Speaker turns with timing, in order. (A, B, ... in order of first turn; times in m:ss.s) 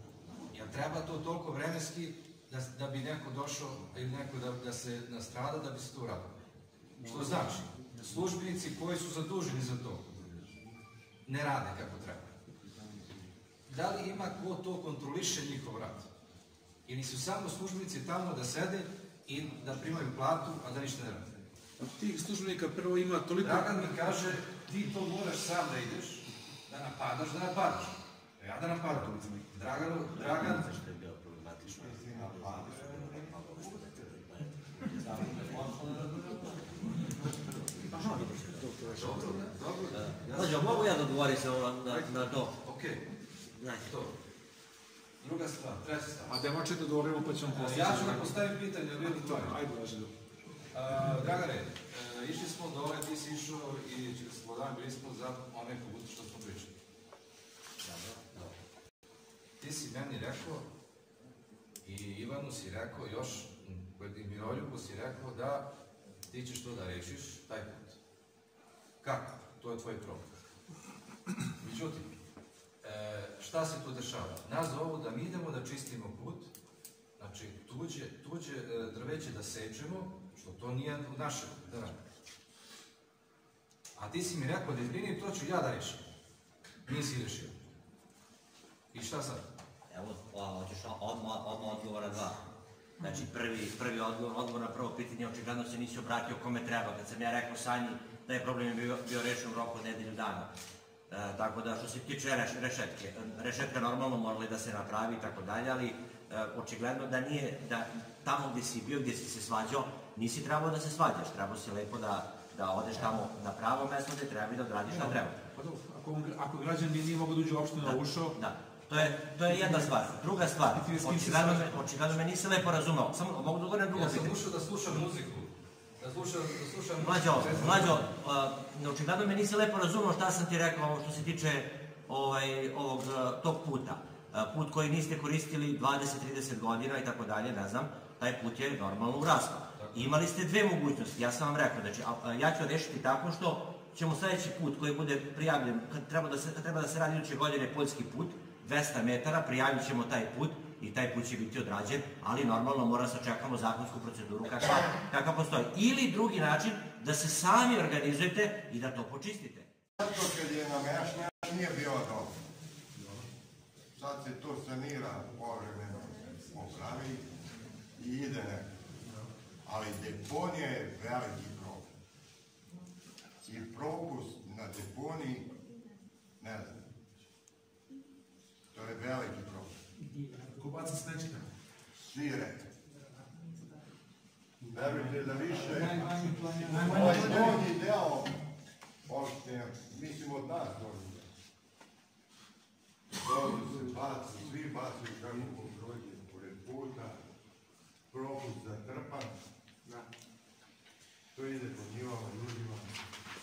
0:00.5-0:06.3 A
0:07.0-0:08.2 B
0:07.0-0:10.1 A
0:11.2-0:12.3 A
0:13.7-0:16.1 A
0:16.9-0:21.4 A
0:21.8-0:23.8 B
0:23.4-0:30.7 A
0:28.9-0:29.4 B
0:30.3-0:36.1 C
0:31.8-0:33.1 D
0:35.2-0:36.6 A
0:37.8-0:38.6 C
0:37.9-0:39.3 B
0:38.8-0:41.2 A
0:40.0-0:42.5 C
0:41.8-0:43.1 A
0:43.8-0:44.2 A
0:45.2-0:46.4 A
0:46.2-0:48.4 B
0:47.5-0:49.6 A
0:49.0-0:50.1 B
0:50.7-0:56.8 A
0:57.8-0:58.2 C
0:59.6-1:00.7 A
1:01.8-1:05.7 A
1:06.3-1:08.0 A
1:09.0-1:10.3 A
1:11.6-1:12.1 A
1:12.8-1:16.5 A
1:17.2-1:22.0 A
1:24.0-1:26.0 A
1:26.9-1:27.6 A
1:28.9-1:29.5 A
1:29.9-1:32.4 C
1:33.0-1:40.5 C
1:41.1-1:55.3 C
1:54.8-1:58.4 B
1:57.8-2:04.3 C
1:58.9-2:00.0 B
2:00.7-2:01.9 B
2:03.9-2:08.1 A
2:07.0-2:39.7 C
2:19.8-2:20.2 A
2:40.0-2:42.4 D
2:44.0-2:47.3 D
2:48.0-2:48.7 D
2:49.6-2:51.9 D
2:53.5-2:55.5 D
2:56.4-2:56.9 D
2:58.7-2:59.8 D
3:00.2-3:01.5 B
3:02.1-3:02.7 D
3:04.6-3:06.0 D
3:04.8-3:07.6 B
3:06.7-3:08.4 D
3:09.1-3:11.3 D
3:13.2-3:17.2 D
3:18.1-3:19.4 D
3:21.3-3:22.9 D